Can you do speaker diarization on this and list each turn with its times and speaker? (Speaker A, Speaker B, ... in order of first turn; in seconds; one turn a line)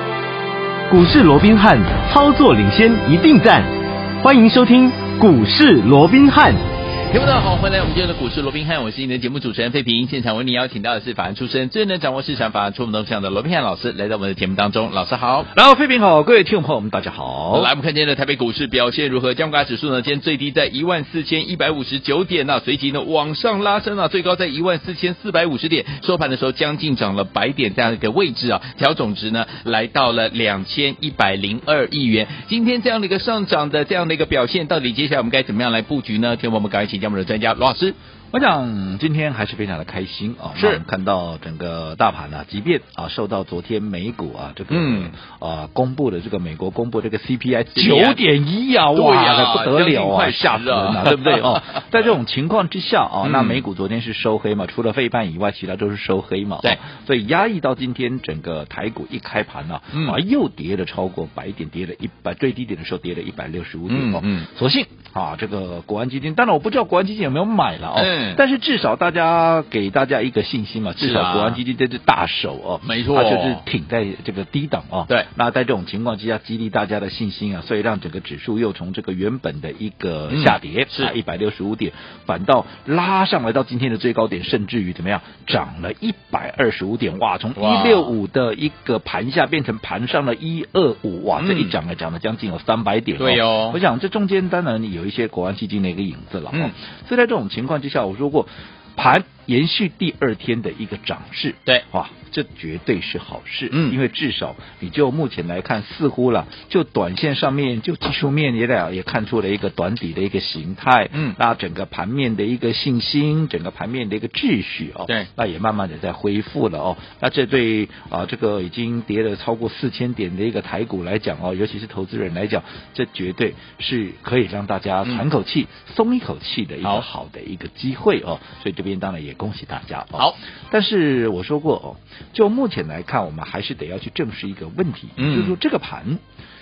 Speaker A: 0.9-3.7
Speaker A: 4.2-6.6
Speaker B: 7.1-15.5
Speaker C: 15.5-17.7
Speaker B: 17.5-38.0
Speaker C: 38.3-136.2
Speaker B: 40.5-40.8
Speaker B: 44.7-45.1
Speaker B: 47.7-48.2
Speaker B: 48.9-52.0
Speaker B: 53.2-53.6
Speaker B: 59.9-60.2
Speaker B: 63.9-64.5
Speaker B: 67.9-68.4
Speaker B: 71.0-71.6
Speaker B: 72.8-73.6
Speaker B: 80.3-81.1
Speaker B: 87.6-88.1
Speaker B: 91.4-91.8
Speaker B: 93.2-93.8
Speaker B: 103.7-104.0
Speaker B: 111.1-111.4
Speaker B: 135.2-135.6